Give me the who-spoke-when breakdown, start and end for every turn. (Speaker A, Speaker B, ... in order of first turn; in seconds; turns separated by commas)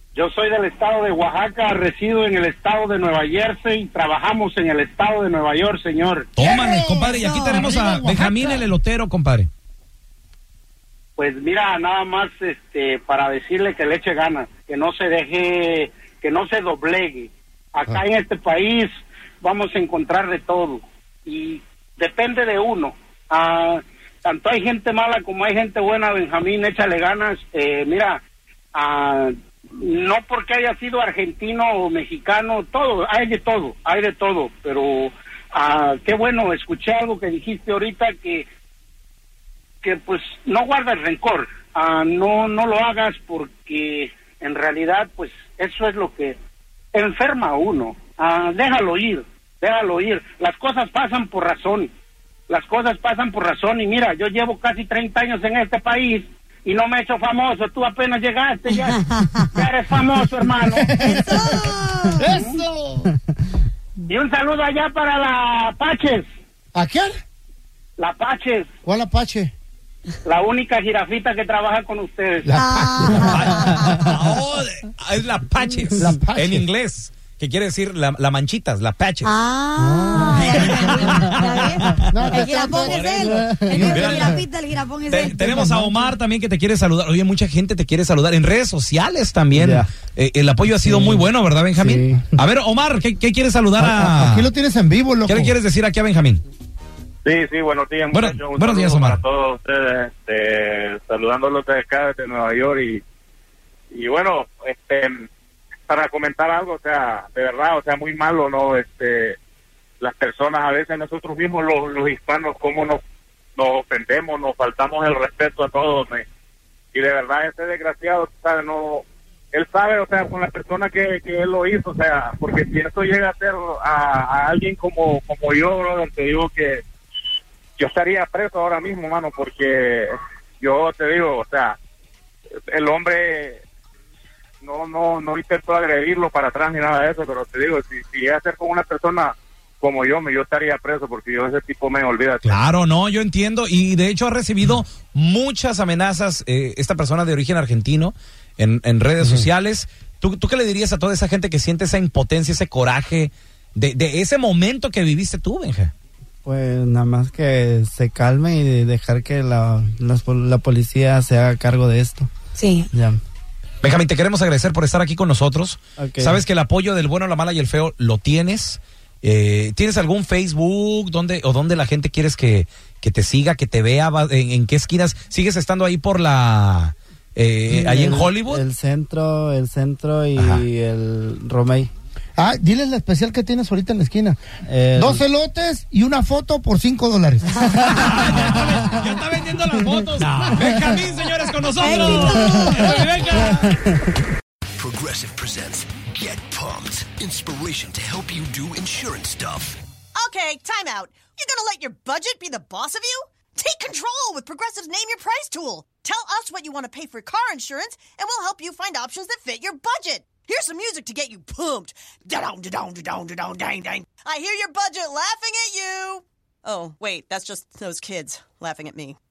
Speaker A: 0.1-6.3, Speaker B: 6.4-9.5, Speaker C: 6.4-8.6, Speaker D: 7.2-7.6, Speaker A: 11.2-28.2, Speaker A: 28.7-38.5, Speaker A: 39.8-46.4, Speaker A: 46.9-51.9, Speaker A: 52.5-61.2, Speaker D: 58.9-59.5, Speaker C: 60.5-63.1, Speaker D: 61.0-62.3, Speaker A: 64.1-66.3, Speaker C: 66.8-67.2, Speaker A: 68.0-68.8, Speaker C: 68.8-69.5, Speaker A: 70.2-72.5, Speaker C: 72.5-73.7, Speaker D: 72.5-74.1, Speaker B: 73.3-79.3, Speaker C: 76.0-76.7, Speaker D: 79.2-85.8, Speaker C: 79.8-81.4, Speaker B: 80.5-81.4, Speaker C: 82.1-84.4, Speaker B: 82.8-84.4, Speaker E: 83.1-84.2, Speaker B: 85.1-94.5, Speaker E: 85.4-85.8, Speaker E: 89.5-89.9, Speaker E: 90.8-92.3, Speaker C: 93.8-95.5, Speaker B: 95.3-96.4, Speaker F: 97.2-103.0, Speaker B: 98.1-99.2, Speaker F: 103.9-105.3, Speaker F: 105.9-109.4, Speaker F: 110.0-113.0, Speaker F: 113.6-116.2, Speaker F: 116.9-126.8, Speaker F: 127.8-131.8, Speaker F: 132.7-133.6, Speaker F: 134.6-142.6, Speaker B: 142.4-155.9, Speaker E: 156.4-162.3, Speaker D: 162.6-162.9, Speaker E: 162.9-163.2, Speaker B: 163.8-178.6, Speaker E: 166.0-166.4, Speaker E: 177.7-181.9, Speaker B: 180.4-180.6, Speaker C: 182.4-184.4, Speaker E: 184.7-185.2, Speaker C: 185.0-188.0, Speaker B: 187.8-193.7, Speaker E: 187.9-189.1, Speaker E: 189.8-191.0, Speaker D: 191.8-193.0, Speaker E: 192.0-193.9, Speaker G: 194.8-199.8, Speaker H: 200.2-219.2